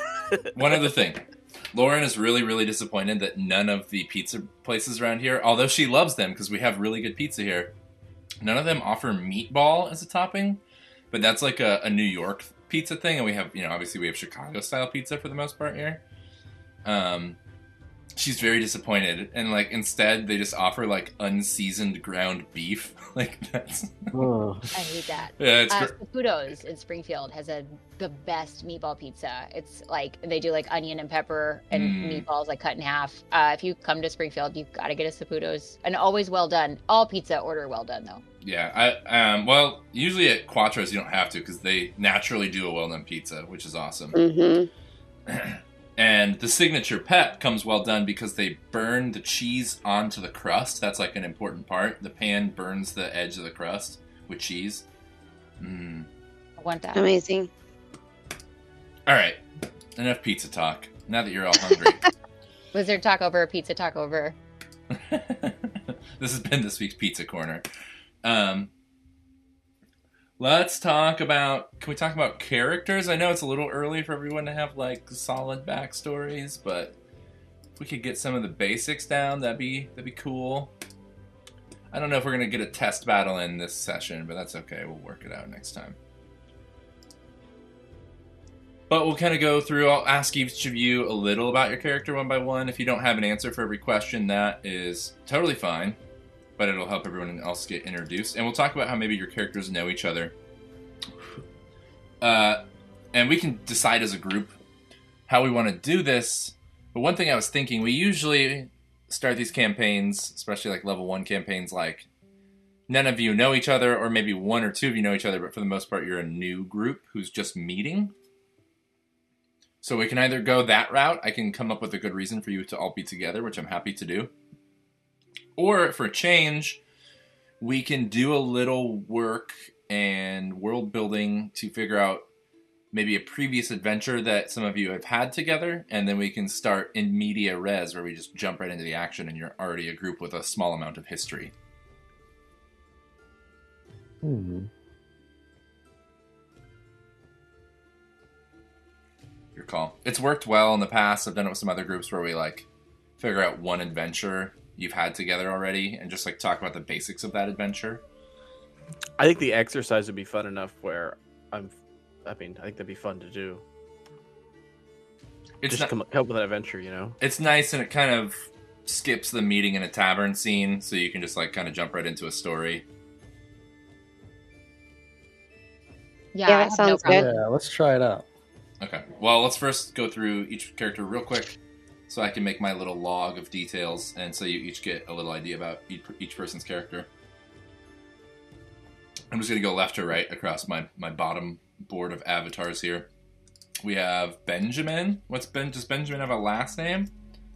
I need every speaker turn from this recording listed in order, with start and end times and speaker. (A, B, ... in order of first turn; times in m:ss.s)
0:00.5-0:07.7 A
0:08.4-0:16.0 A
0:16.8-0:17.4 A
0:18.2-0:24.2 A
0:24.1-0:24.7 B
0:24.7-0:38.2 C
0:25.4-0:26.0 A
0:31.7-0:32.2 A
0:38.4-0:44.2 A
0:44.1-0:44.7 D
0:45.3-0:54.8 A
0:55.6-0:56.1 A
0:56.6-0:57.0 C
0:56.9-0:57.5 D
0:59.1-0:59.4 A
1:00.0-1:02.1 A
1:02.7-1:04.4 C
1:04.9-1:07.6 A
1:08.2-1:08.7 A
1:10.4-1:17.0 A
1:17.8-1:20.7 A
1:21.9-1:26.0 A
1:28.9-1:36.0 A
1:36.6-1:40.3 A
1:42.2-1:42.6 A
1:43.1-1:44.6 A
1:45.3-1:52.1 A
1:52.9-1:58.1 A
1:59.8-2:04.3 A
2:05.6-2:06.8 A
2:07.6-2:12.2 A
2:12.9-2:21.5 A
2:24.2-2:24.7 B
2:29.5-2:32.6 A
2:33.2-2:38.0 A
2:39.2-2:43.6 E
2:45.6-2:45.9 A
2:45.7-2:47.2 E
2:47.2-2:52.8 A
2:56.3-2:57.3 C
2:56.5-2:57.3 D
2:57.1-2:58.2 B
2:58.8-3:07.1 A
3:09.3-3:13.1 A
3:13.8-3:17.1 A